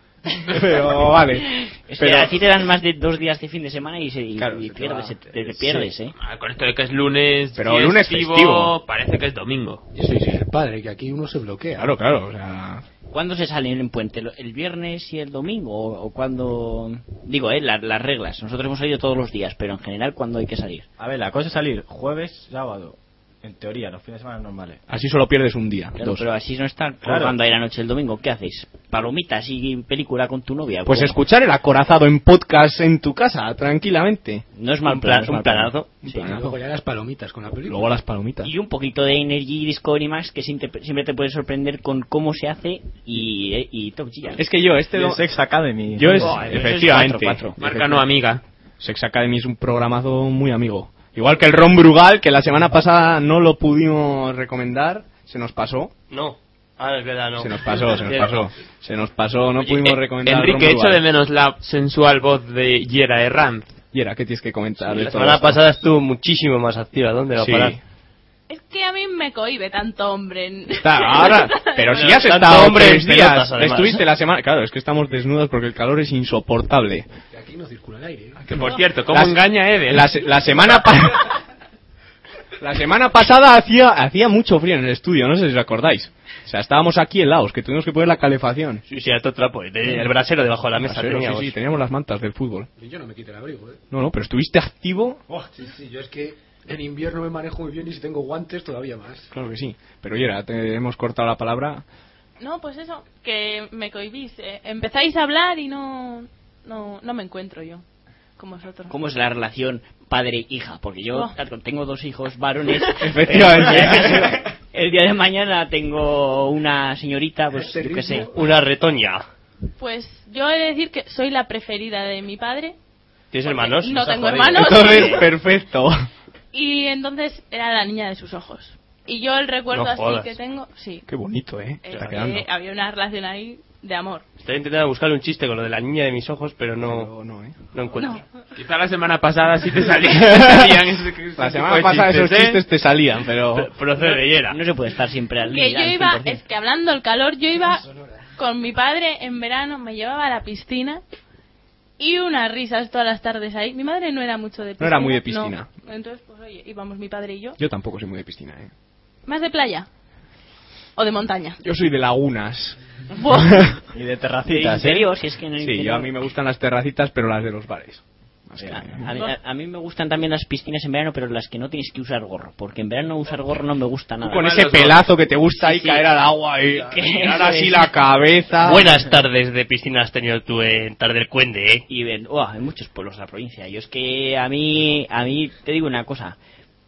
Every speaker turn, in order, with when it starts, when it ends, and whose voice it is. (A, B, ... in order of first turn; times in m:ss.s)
0:00.5-0:02.4 A
0:01.9-0:06.1 B
0:04.4-0:05.9 A
0:06.2-0:09.8 C
0:07.6-0:08.8 A
0:10.0-0:11.9 D
0:11.8-0:12.8 A
0:13.1-0:20.8 B
0:21.0-0:24.8 E
0:24.9-0:26.3 A
0:26.0-0:31.2 B
0:27.0-0:27.4 E
0:30.9-0:34.4 A
0:34.6-0:36.3 B
0:34.9-0:35.9 F
0:36.0-0:36.5 A
0:36.1-0:37.9 D
0:37.7-0:38.5 A
0:38.4-0:44.4 B
0:44.4-0:45.2 A
0:44.9-0:46.5 E
0:46.0-0:48.0 A
0:46.1-0:47.6 B
0:47.6-0:48.4 C
0:48.8-0:55.9 A
0:56.1-0:58.4 F
0:57.4-1:01.0 A
0:59.6-1:03.8 C
1:03.9-1:05.6 A
1:04.9-1:07.8 F
1:07.4-1:07.8 A
1:08.5-1:12.0 G
1:10.7-1:17.1 A
1:11.9-1:14.0 F
1:17.3-1:18.5 D
1:18.5-1:20.1 C
1:18.5-1:21.3 A
1:22.6-1:28.8 A
1:28.9-1:31.6 F
1:30.8-1:32.7 A
1:32.8-1:33.8 D
1:33.9-1:35.2 A
1:35.5-1:39.3 D
1:39.3-1:41.8 A
1:42.4-1:47.8 G
1:48.4-1:48.9 G
1:48.9-1:58.3 B
1:53.0-1:54.4 A
1:57.6-1:58.3 D
1:58.3-1:59.2 F
1:59.8-2:02.8 G
2:03.3-2:05.1 F
2:03.5-2:05.3 G
2:04.5-2:06.0 A
2:06.5-2:11.1 G
2:09.7-2:10.4 F
2:11.1-2:12.5 A
2:11.8-2:14.2 G
2:14.4-2:17.1 F
2:16.8-2:17.6 A
2:17.7-2:18.2 F
2:18.6-2:22.6 C
2:20.2-2:20.8 A
2:21.4-2:23.7 A
2:23.6-2:24.6 F
2:24.0-2:26.4 B
2:25.4-2:27.8 G
2:28.4-2:31.0 G
2:32.0-2:37.6 G
2:34.8-2:35.7 A
2:37.6-2:38.7 A
2:39.3-2:39.9 G
2:41.0-2:41.6 G
2:41.6-2:43.8 A
2:43.2-2:43.7 G
2:43.9-2:45.1 E
2:44.5-2:46.1 B
2:45.6-2:49.1 A
2:48.6-2:54.9 B
2:54.2-2:58.9 A
2:54.5-2:54.9 C
2:55.6-2:56.0 B
2:56.8-2:58.0 B
2:58.6-3:01.8 F
3:01.9-3:06.4 B